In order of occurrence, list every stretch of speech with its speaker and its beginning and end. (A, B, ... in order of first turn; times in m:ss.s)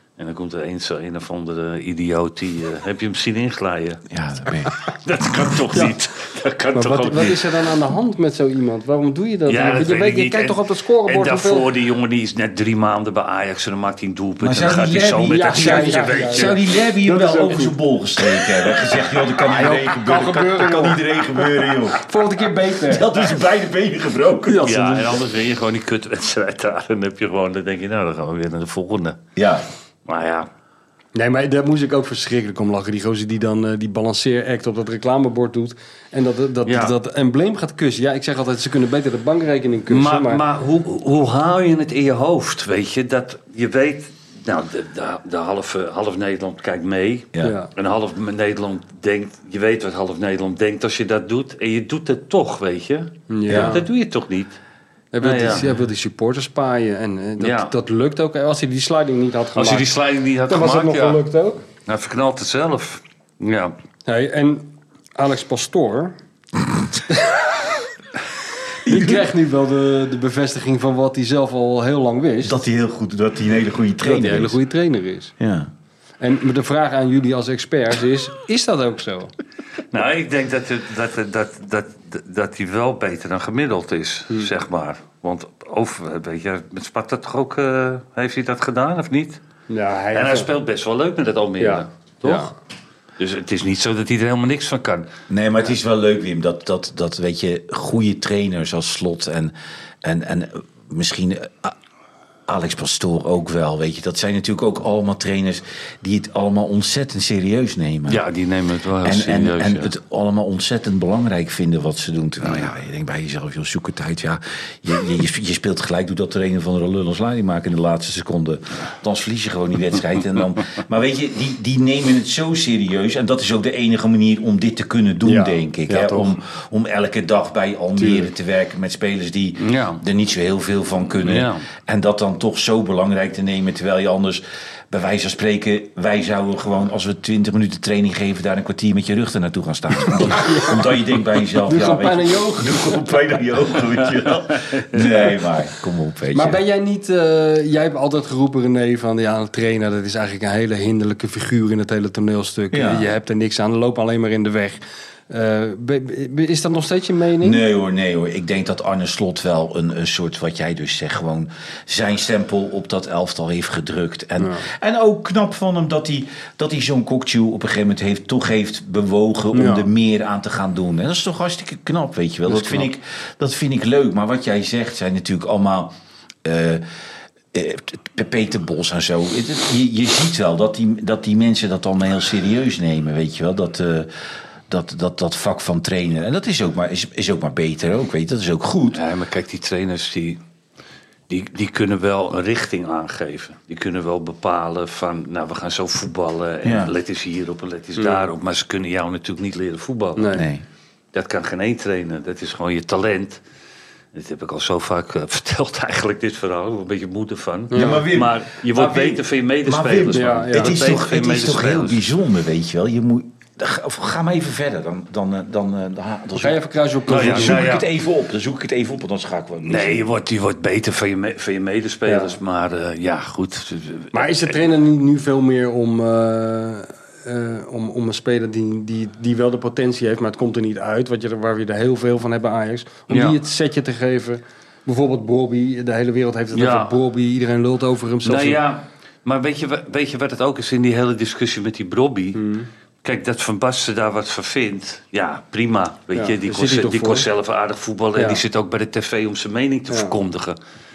0:00.2-0:07.6 A
0:04.1-0:04.7 B
0:06.7-0:11.6 C
0:09.5-0:16.7 A
0:14.4-0:22.0 B
0:15.3-0:17.8 C
0:19.4-0:21.0 C
0:22.0-0:23.1 C
0:22.8-0:24.8 B
0:24.5-0:25.2 C
0:24.6-0:29.2 A
0:29.4-0:29.7 B
0:30.1-0:30.5 A
0:31.2-0:40.4 C
0:36.7-0:36.9 A
0:39.9-0:54.6 A
0:47.4-0:47.7 C
0:53.3-0:53.8 C
0:53.5-0:53.8 B
0:55.1-0:59.9 C
0:55.2-0:55.7 A
0:57.4-0:57.7 A
0:59.6-1:01.2 A
1:00.5-1:01.6 C
1:01.9-1:03.7 A
1:04.1-1:06.2 C
1:07.0-1:07.5 C
1:08.8-1:09.3 B
1:08.9-1:12.6 C
1:12.4-1:14.6 B
1:14.0-1:15.3 C
1:15.4-1:15.7 B
1:16.2-1:19.3 C
1:19.9-1:29.4 A
1:29.7-1:30.5 C
1:30.1-1:32.5 A
1:31.6-1:32.5 C
1:33.2-1:35.1 A
1:35.3-1:41.8 B
1:42.5-1:48.2 B
1:48.1-1:49.9 A
1:49.0-2:26.6 B
2:05.2-2:06.3 C
2:08.0-2:08.3 C
2:09.6-2:10.0 A
2:11.2-2:11.7 A
2:20.3-2:20.8 C
2:21.6-2:23.0 C
2:24.7-2:25.1 A
2:26.3-2:37.6 C
2:32.7-2:33.1 B
2:37.4-2:56.8 B
2:44.4-2:44.6 C
2:49.5-2:49.9 C
2:52.5-2:52.9 C
2:57.5-3:04.1 B
3:04.7-3:09.0 B
3:08.9-3:10.4 A
3:11.3-3:20.4 A
3:16.6-3:16.9 B
3:18.0-3:18.3 C
3:20.2-3:20.5 C
3:20.3-3:20.6 B
3:21.1-3:23.4 A
3:24.1-3:32.1 A
3:27.7-3:28.1 C
3:27.7-3:40.0 B
3:30.2-3:30.7 C
3:36.4-3:37.7 C
3:37.1-3:37.9 A
3:39.6-3:44.6 A
3:42.1-3:42.4 C
3:44.1-3:58.6 C
3:53.1-3:53.4 A
3:56.5-3:57.0 A
3:58.2-4:02.4 A
4:02.4-4:02.7 C
4:03.0-4:10.6 A
4:06.1-4:07.3 C
4:08.2-4:08.4 C